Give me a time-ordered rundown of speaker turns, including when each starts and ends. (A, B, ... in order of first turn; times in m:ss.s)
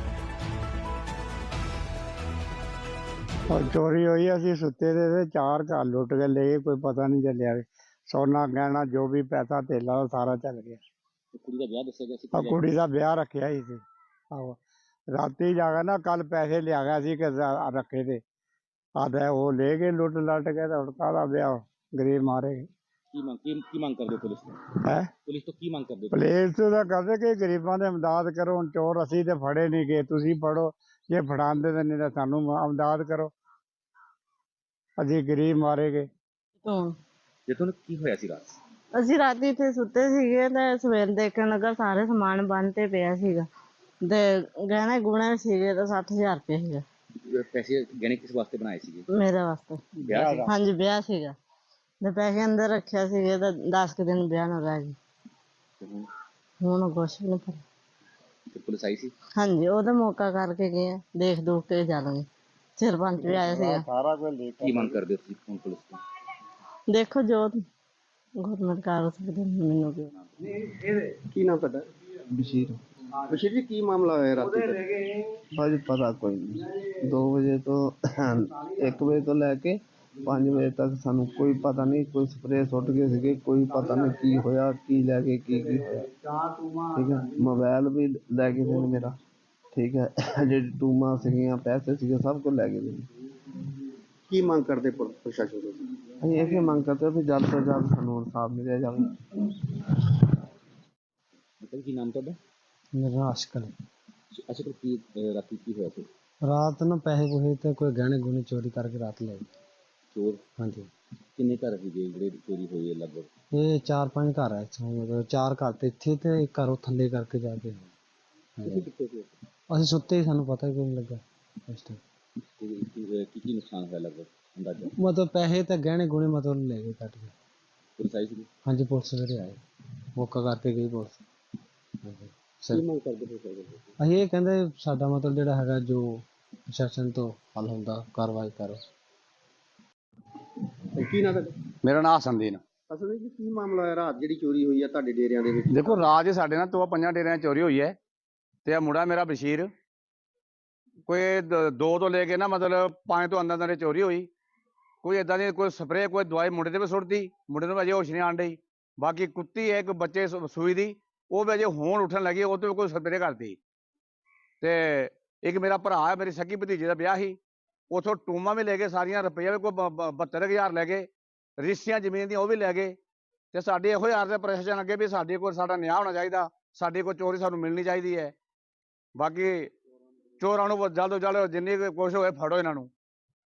0:03.5-0:10.8 A
0:11.3-0:12.6 B
0:12.3-0:13.8 A
0:15.2-0:18.2 A
0:19.0-0:22.7 A
0:23.1-0:24.6 B
0:24.8-0:25.1 A
0:25.3-0:26.3 B
0:26.1-0:33.3 A
0:35.0-0:36.1 A
0:36.6-0:37.0 C
0:37.5-0:38.5 B
0:39.0-0:43.5 C
0:44.0-0:46.8 C
0:47.3-0:49.0 B
0:49.2-0:49.8 C
0:50.0-0:50.5 A
0:50.0-0:50.5 B
0:50.5-0:51.4 C
0:52.0-0:55.0 C
0:55.8-0:56.1 B
0:56.6-0:57.6 C
0:58.5-0:59.1 B
0:59.4-1:02.3 C
1:02.8-1:03.8 C
1:03.2-1:05.0 A
1:04.6-1:06.0 B
1:06.9-1:07.6 C
1:08.4-1:10.1 C
1:11.0-1:11.9 D
1:12.3-1:12.8 E
1:13.3-1:14.9 D
1:15.5-1:26.1 E
1:26.9-1:29.2 E
1:29.7-1:33.1 E
1:34.3-1:35.8 D
1:36.2-1:39.3 E
1:41.6-1:42.4 B
1:42.9-1:43.7 F
1:44.3-1:46.1 B
1:46.4-1:49.4 F
1:50.1-1:50.4 B
1:50.6-1:50.9 F
1:51.4-1:53.3 B
1:53.5-1:57.9 F
1:58.6-1:58.8 F
1:58.7-1:59.3 B
1:59.7-2:02.0 F
2:02.6-2:04.9 B
2:04.9-2:07.3 F
2:08.0-2:08.5 B
2:08.7-2:09.6 F
2:10.1-2:11.2 F
2:12.0-2:12.8 F
2:12.7-2:13.8 B
2:14.0-2:18.8 F
2:20.9-2:21.6 D
2:21.8-2:22.6 G
2:22.9-2:26.0 D
2:25.7-2:28.0 G
2:28.7-2:29.7 G
2:31.1-2:34.3 G
2:35.0-2:43.6 G
2:44.6-2:47.4 G
2:47.9-2:53.0 G
2:53.5-2:58.3 G
2:59.2-2:59.7 G
3:00.4-3:02.9 G